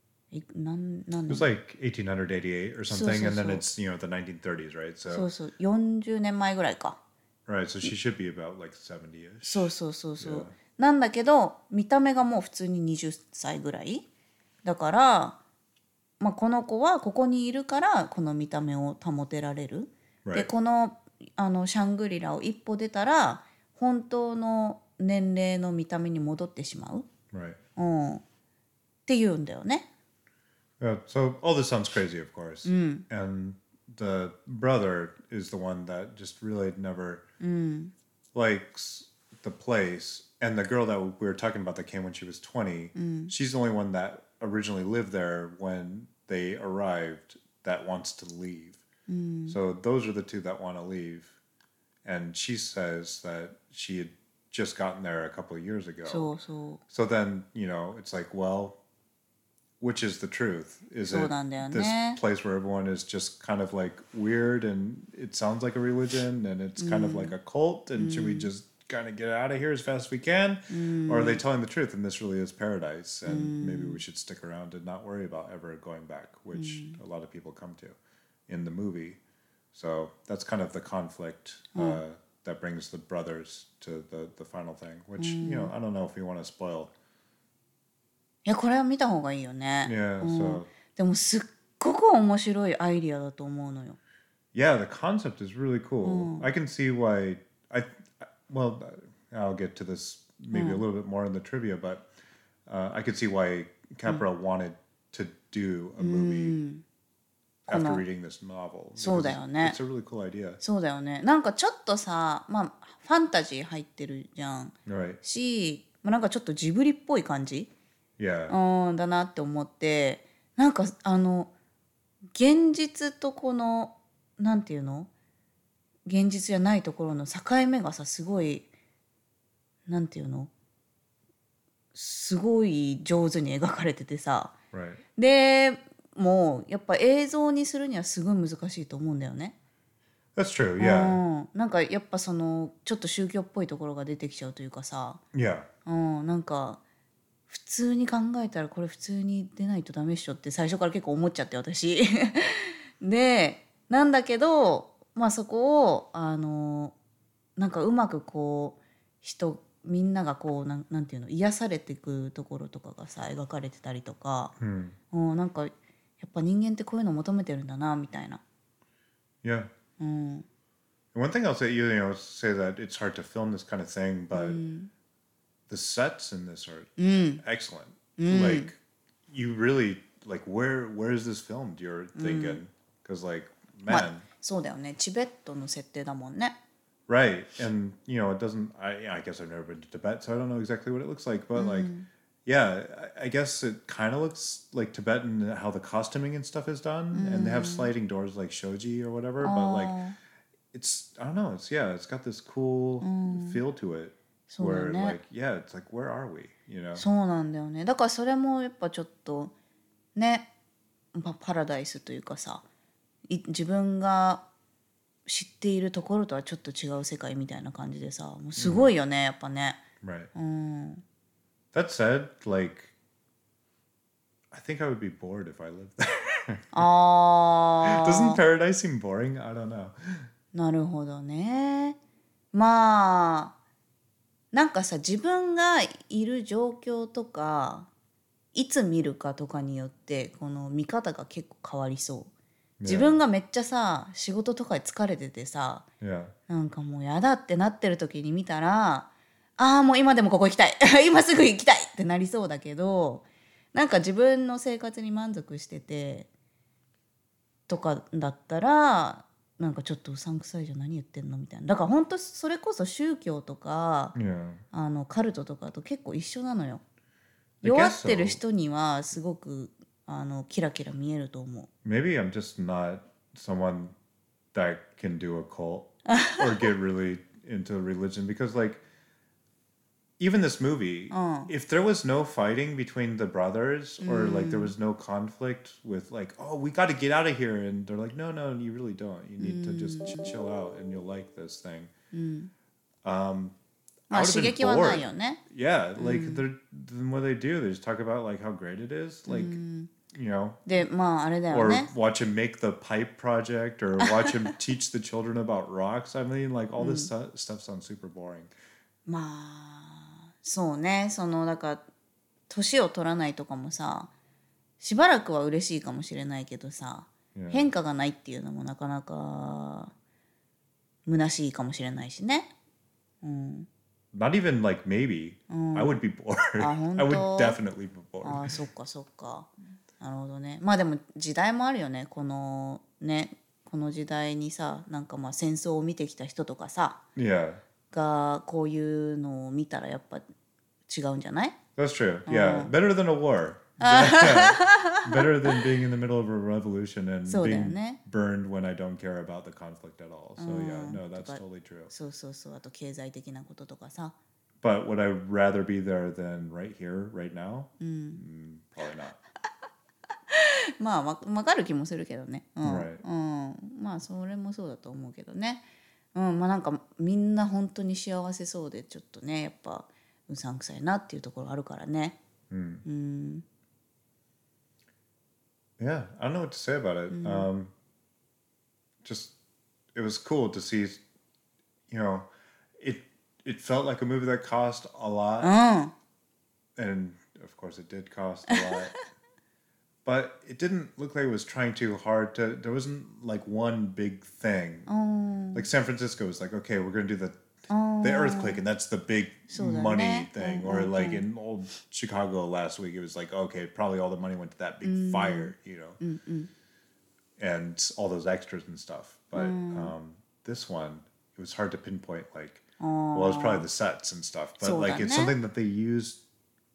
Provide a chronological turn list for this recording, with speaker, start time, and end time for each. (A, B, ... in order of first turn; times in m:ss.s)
0:00.3-0:01.5 A
0:01.3-0:05.3 B
0:02.9-0:03.6 A
0:05.1-0:07.0 A
0:07.5-0:10.5 B
0:09.4-0:14.1 A
0:14.6-0:15.4 A
0:16.2-0:27.1 A
0:20.2-0:20.5 B
0:27.3-0:27.6 B
0:27.8-0:28.2 A
0:29.1-0:29.9 A
0:30.8-0:37.2 B
0:32.6-0:33.0 A
0:37.4-0:37.9 A
0:38.3-0:48.8 B
0:43.0-0:43.3 A
0:49.1-0:49.6 A
0:49.5-0:51.4 B
0:52.0-0:56.3 B
0:56.0-0:56.8 A
0:56.9-0:58.8 B
0:59.8-1:18.0 B
1:01.0-1:02.2 A
1:06.8-1:07.3 A
1:08.0-1:08.5 A
1:10.7-1:11.4 A
1:13.3-1:14.0 A
1:16.5-1:17.0 A
1:18.5-1:19.2 B
1:19.7-1:26.9 B
1:21.7-1:22.0 A
1:25.2-1:25.7 A
1:28.4-1:34.0 A
1:29.8-1:30.7 B
1:34.5-1:42.1 B
1:36.0-1:36.5 A
1:40.5-1:40.8 A
1:42.7-1:46.6 B
1:46.0-1:46.8 A
1:47.7-1:50.6 B
1:47.7-1:48.0 A
1:49.0-1:49.8 A
1:50.6-1:57.7 A
1:54.9-1:55.2 B
1:58.2-1:58.6 B
1:58.5-2:01.5 A
2:02.3-2:05.1 A
2:06.1-2:08.7 A
2:09.9-2:10.5 A
2:11.9-2:14.6 A
2:14.7-2:15.0 B
2:15.2-2:19.6 A
2:20.4-2:21.2 B
2:20.8-2:25.2 A
2:25.3-2:25.7 B
2:25.8-2:26.8 A
2:27.5-2:36.9 A
2:37.6-2:44.5 A
2:44.6-2:45.0 B
2:45.1-2:48.4 A
2:49.4-2:49.7 B
2:50.0-2:50.5 A
2:51.1-2:54.6 B
2:54.3-2:54.9 A
2:55.7-3:04.2 B
2:57.0-2:57.4 A
2:58.2-2:58.7 A
3:02.2-3:02.6 A
3:03.9-3:06.6 A
3:07.1-3:11.9 B
3:11.6-3:12.1 A
3:12.5-3:20.0 B
3:17.1-3:17.9 A
3:19.4-3:20.2 A
3:20.7-3:27.0 B
3:23.0-3:23.6 A
3:24.5-3:25.2 A
3:27.0-3:29.5 A
3:30.2-3:30.5 A
3:31.1-3:32.6 A
3:33.3-3:34.4 A
3:35.3-3:39.8 A
3:38.6-3:38.9 B
3:40.0-3:40.3 B
3:40.3-3:41.0 A
3:41.7-3:42.9 B
3:44.5-3:46.9 B
3:46.7-3:48.4 A
3:47.8-3:50.3 B
3:50.5-3:52.0 A
3:52.5-3:53.5 A
3:54.5-3:57.9 A
3:58.5-4:02.3 A
4:02.8-4:03.2 B
4:02.8-4:05.8 A
4:06.0-4:06.3 B
4:06.5-4:16.3 A
4:17.7-4:24.2 A
4:24.2-4:24.6 B
4:24.7-4:26.8 A
4:27.6-4:28.4 B
4:27.6-4:31.7 A
4:31.8-4:34.0 B
4:34.5-4:38.8 B
4:36.1-4:36.7 A
4:40.2-4:51.9 B
4:41.1-4:41.5 A
4:44.0-4:44.7 A
4:49.4-4:50.3 A
4:52.1-4:52.5 A
4:53.0-4:53.6 B
4:54.1-4:55.4 A
4:54.1-5:00.6 B
4:56.0-4:56.4 A
4:59.3-4:59.9 A
5:00.7-5:01.9 A
5:01.5-5:08.5 B
5:04.0-5:04.4 A
5:06.8-5:07.1 A
5:09.1-5:11.8 A
5:12.5-5:14.1 A
5:14.8-5:19.9 A
5:17.4-5:17.7 B
5:21.1-5:22.5 A
5:23.2-5:23.7 A
5:24.1-5:28.5 B
5:25.5-5:25.9 A
5:26.6-5:27.6 A
5:28.2-5:37.0 A
5:37.2-5:37.6 B
5:37.9-5:40.3 A
5:40.9-5:41.6 A
5:41.8-5:51.9 B
5:42.3-5:42.7 A
5:43.8-5:45.6 A
5:47.3-5:48.0 A
5:50.4-5:54.2 A
5:54.6-5:59.2 B
5:57.8-5:58.2 A
6:00.3-6:12.2 A
6:02.6-6:03.0 B
6:12.5-6:12.8 B
6:12.8-6:13.4 A
6:15.8-6:17.7 B
6:17.1-6:17.5 A
6:19.0-6:19.3 B
6:19.9-6:21.0 B
6:21.9-6:22.3 B
6:22.8-6:25.5 B
6:25.4-6:25.9 A
6:26.8-6:29.0 B
6:28.5-6:29.0 A
6:30.0-6:34.9 B
6:34.9-6:35.7 A
6:35.6-6:37.4 B
6:37.7-6:38.6 A
6:38.0-6:46.0 B
6:39.5-6:41.2 A
6:44.8-6:46.5 A
6:47.4-6:56.2 B
6:49.3-6:49.9 A
6:52.8-6:53.7 A
6:54.6-6:55.4 A